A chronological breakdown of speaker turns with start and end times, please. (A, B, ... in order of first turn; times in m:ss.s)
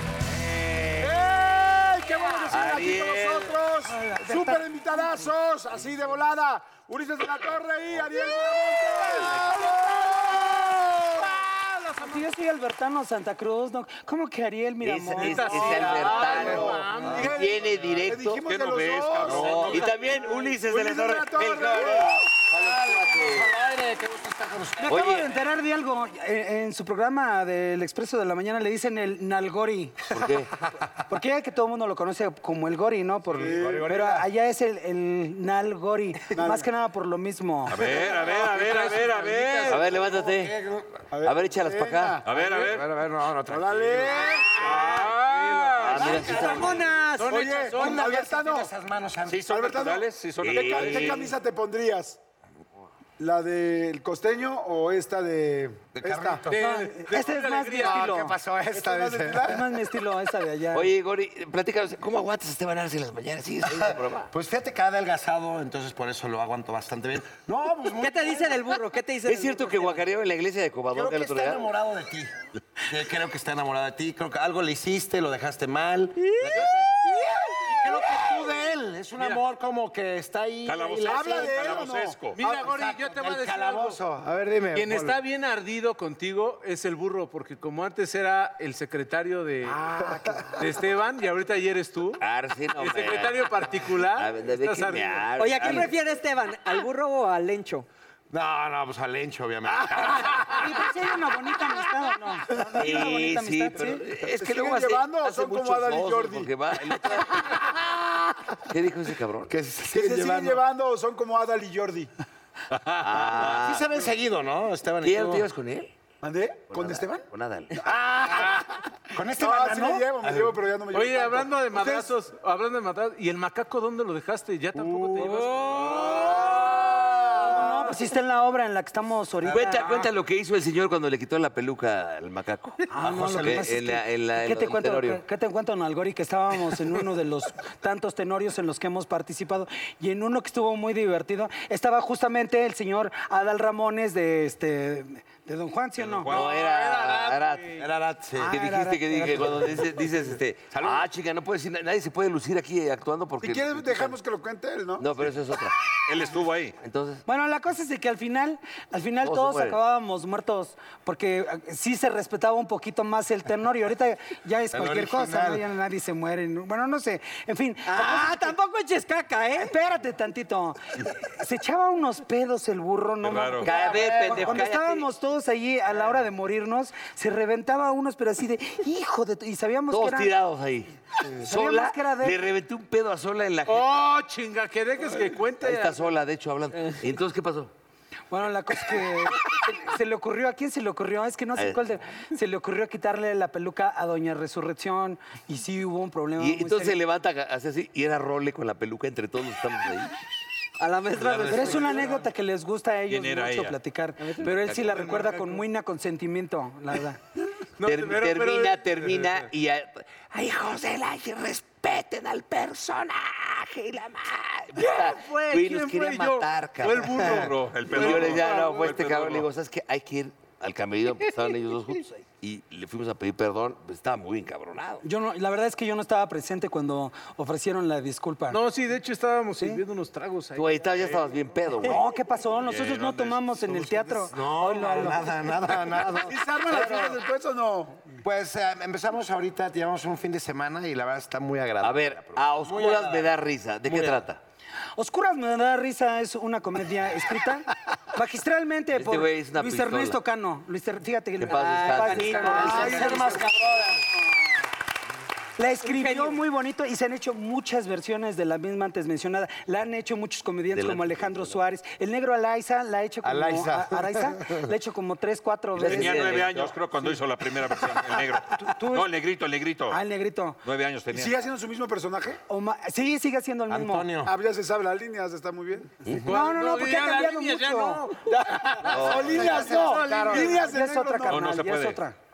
0:00.5-0:01.2 A
0:01.0-0:11.4 B
0:02.5-0:03.5 A
0:03.9-0:05.2 C
0:11.3-0:12.3 D
0:12.0-0:15.9 C
0:14.8-0:18.4 A
0:15.2-0:17.6 D
0:15.8-0:22.3 B
0:17.7-0:19.9 E
0:19.2-0:23.6 A
0:22.5-0:25.1 F
0:24.8-0:30.2 C
0:24.9-0:25.4 A
0:30.1-0:30.5 A
0:31.1-0:37.9 C
0:33.3-0:34.2 F
0:33.4-0:34.0 B
0:36.3-0:36.7 B
0:37.7-0:39.9 E
0:38.2-0:39.7 D
0:38.6-0:41.0 F
0:39.7-0:40.6 A
0:41.1-0:42.7 B
0:41.2-0:42.2 A
0:42.3-0:42.9 E
0:42.3-0:46.8 F
0:43.7-0:44.7 B
0:44.5-0:46.3 E
0:44.6-0:45.0 G
0:45.8-0:46.8 A
0:46.1-0:47.5 G
0:47.2-0:48.1 D
0:47.2-0:48.7 B
0:47.7-0:49.5 F
0:49.3-0:51.3 E
0:49.5-0:52.2 B
0:50.4-0:51.3 A
0:53.2-0:56.5 B
0:55.9-0:56.6 F
0:56.5-0:58.3 D
0:56.6-0:58.4 C
0:57.8-0:59.6 F
0:58.7-0:59.7 B
0:59.4-1:00.9 C
1:00.7-1:04.3 A
1:03.7-1:08.7 F
1:08.0-1:10.0 G
1:09.3-1:11.7 A
1:10.9-1:12.3 F
1:12.9-1:17.0 F
1:17.5-1:25.2 F
1:20.7-1:22.4 E
1:21.0-1:22.2 B
1:22.4-1:24.0 D
1:24.7-1:29.8 D
1:29.6-1:30.6 F
1:30.6-1:32.2 D
1:32.2-1:35.9 A
1:32.8-1:35.3 D
1:35.4-1:37.9 G
1:38.3-1:40.7 F
1:40.4-1:44.1 C
1:42.7-1:47.8 A
1:44.2-1:46.5 B
1:48.6-1:49.5 A
1:49.5-1:50.6 F
1:49.9-1:52.1 B
1:53.0-1:53.9 A
1:53.2-1:55.4 F
1:55.0-1:55.9 A
1:56.2-1:57.3 B
1:56.7-1:57.8 A
1:57.8-1:58.6 F
1:57.9-1:58.6 B
1:59.1-2:00.5 F
1:59.4-2:02.1 B
2:00.9-2:06.1 D
2:05.0-2:05.4 F
2:05.9-2:06.4 A
2:05.9-2:06.7 F
2:07.4-2:10.1 C
2:09.5-2:15.2 A
2:12.9-2:26.3 C
2:13.1-2:13.6 F
2:26.0-2:26.6 E
2:26.3-2:27.8 A
2:26.3-2:27.9 D
2:27.8-2:28.6 F
2:28.4-2:29.9 C
2:28.5-2:34.2 A
2:30.8-2:31.0 F
2:33.4-2:35.1 B
2:35.0-2:35.8 A
2:36.1-2:36.8 E
2:36.8-2:37.2 A
2:37.3-2:48.6 C
2:39.2-2:39.8 A
2:44.7-2:45.6 F
2:47.8-2:49.7 G
2:49.6-3:00.3 C
2:53.2-2:53.7 E
2:53.6-2:55.1 A
2:53.8-2:54.6 F
2:59.9-3:03.9 A
3:01.3-3:02.4 C
3:03.7-3:06.1 D
3:05.6-3:07.7 A
3:08.3-3:17.0 C
3:16.4-3:20.2 A
3:20.8-3:22.1 G
3:21.1-3:22.0 A
3:21.4-3:27.2 C
3:23.1-3:23.8 E
3:24.8-3:25.6 D
3:27.8-3:29.3 D
3:27.8-3:37.4 A
3:34.8-3:39.0 D
3:37.2-3:39.5 E
3:37.9-3:45.0 A
3:45.0-3:48.6 C
3:48.5-3:51.3 D
3:50.6-3:52.0 A
3:51.8-3:55.5 C
3:52.6-3:53.8 E
3:54.1-3:57.2 F
3:56.2-3:58.2 B
3:58.2-4:03.3 F
4:01.8-4:04.4 A
4:03.9-4:04.2 F
4:05.0-4:13.4 C
4:09.0-4:10.2 A
4:11.4-4:13.4 A
4:11.6-4:13.2 G
4:12.5-4:14.0 F
4:12.6-4:13.2 B
4:15.6-4:26.5 C
4:15.8-4:16.4 G
4:20.7-4:21.6 A
4:23.2-4:24.6 F
4:25.8-4:26.8 A
4:25.8-4:30.0 E
4:28.6-4:29.1 C
4:29.9-4:30.6 C
4:30.6-4:31.4 E
4:31.1-4:32.4 B
4:32.5-4:34.1 C
4:33.7-4:34.3 F
4:34.2-4:36.1 B
4:36.2-4:38.0 C
4:36.3-4:40.6 D
4:38.3-4:41.5 B
4:38.9-4:39.8 A
4:39.1-4:40.7 F
4:39.5-4:42.2 C
4:41.3-4:42.0 E